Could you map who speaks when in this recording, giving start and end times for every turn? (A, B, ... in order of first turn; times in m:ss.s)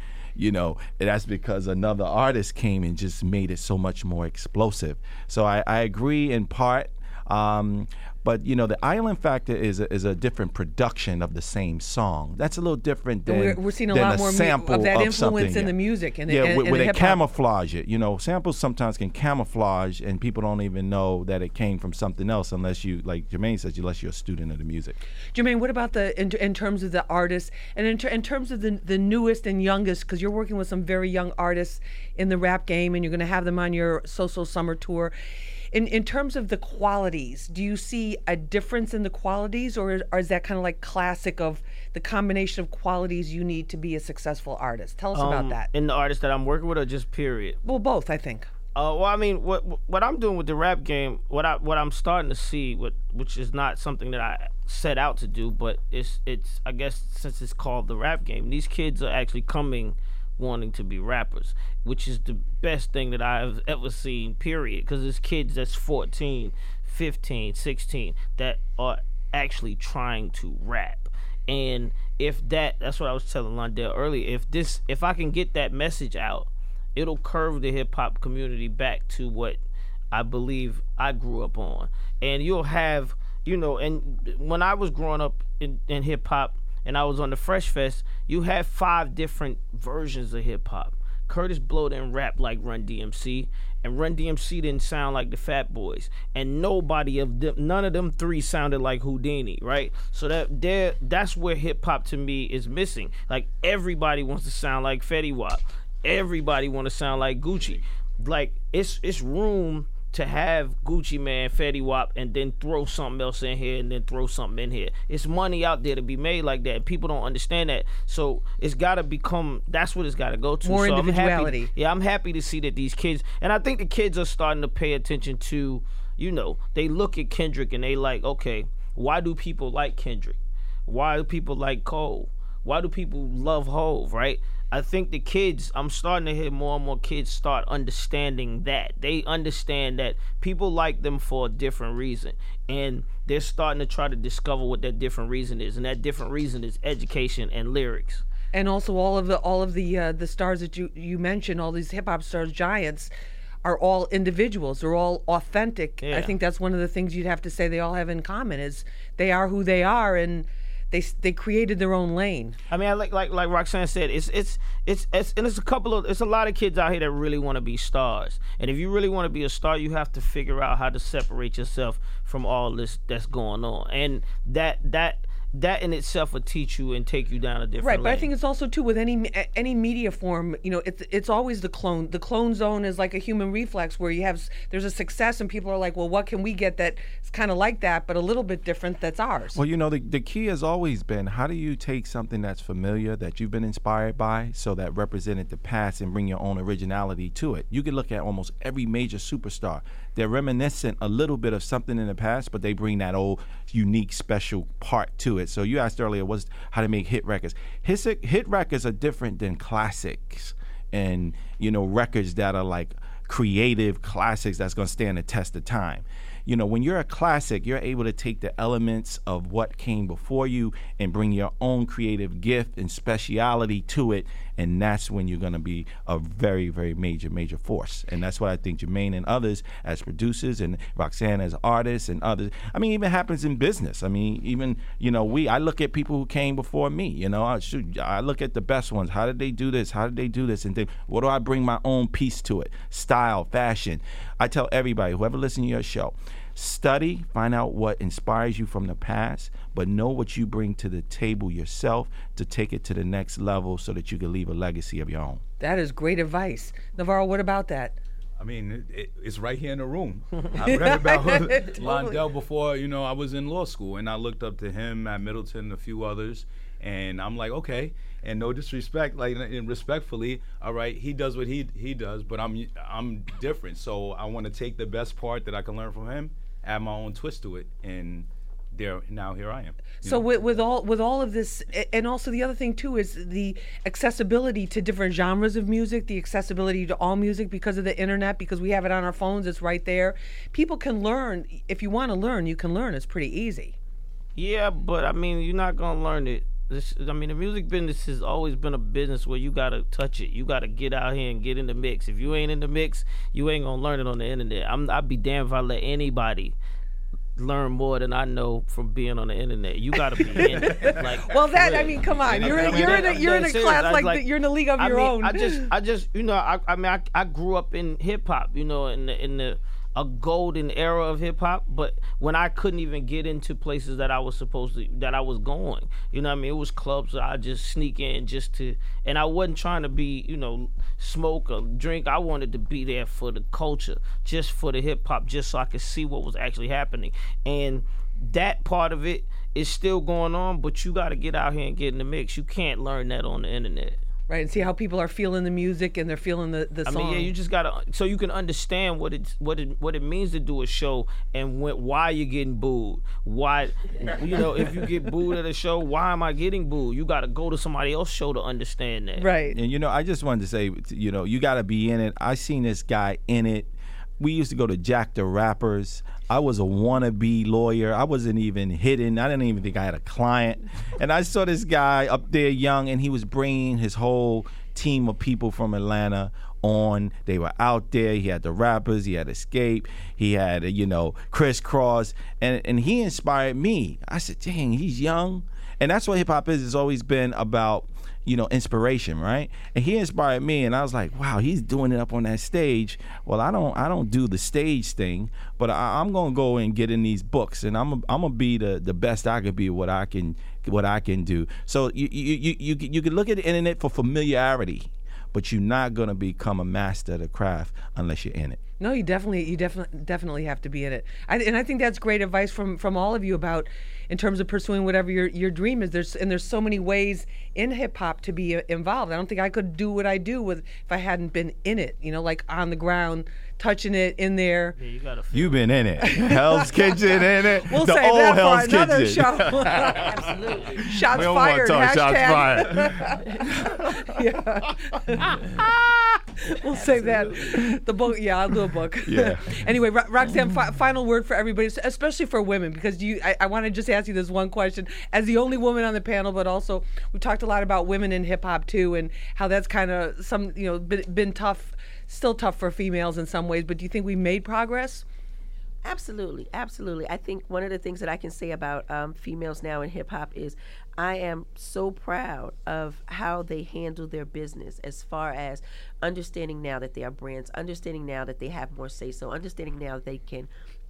0:00.4-0:25.0 A
0:13.3-0:17.2 B
0:25.3-0:35.1 B
0:35.7-0:45.7 B
0:45.1-0:47.6 C
0:47.6-0:48.5 B
0:48.7-1:19.6 C
1:20.1-2:28.2 C
2:00.6-2:01.7 B
2:28.5-2:33.1 B
2:33.6-2:42.6 B
2:36.0-2:36.4 C
2:42.7-2:58.3 C
2:57.8-3:09.6 B
3:09.5-4:15.4 A
4:15.6-4:18.0 B
4:18.4-4:40.4 D
4:20.6-4:22.2 B
4:40.0-4:53.8 B
4:54.4-5:06.6 C
5:07.4-5:44.0 C
5:10.3-5:15.7 B
5:12.3-5:13.2 A
5:44.3-5:47.3 B
5:46.9-5:59.3 C
5:59.2-5:59.6 B
5:59.5-6:48.6 A
6:48.8-7:04.7 B
7:04.8-7:05.6 C
7:05.3-7:10.2 A
7:06.0-7:10.2 B
7:09.8-7:10.9 E
7:10.7-7:13.9 A
7:10.8-7:35.0 B
7:16.7-7:17.6 E
7:19.0-7:19.7 A
7:35.8-7:50.5 E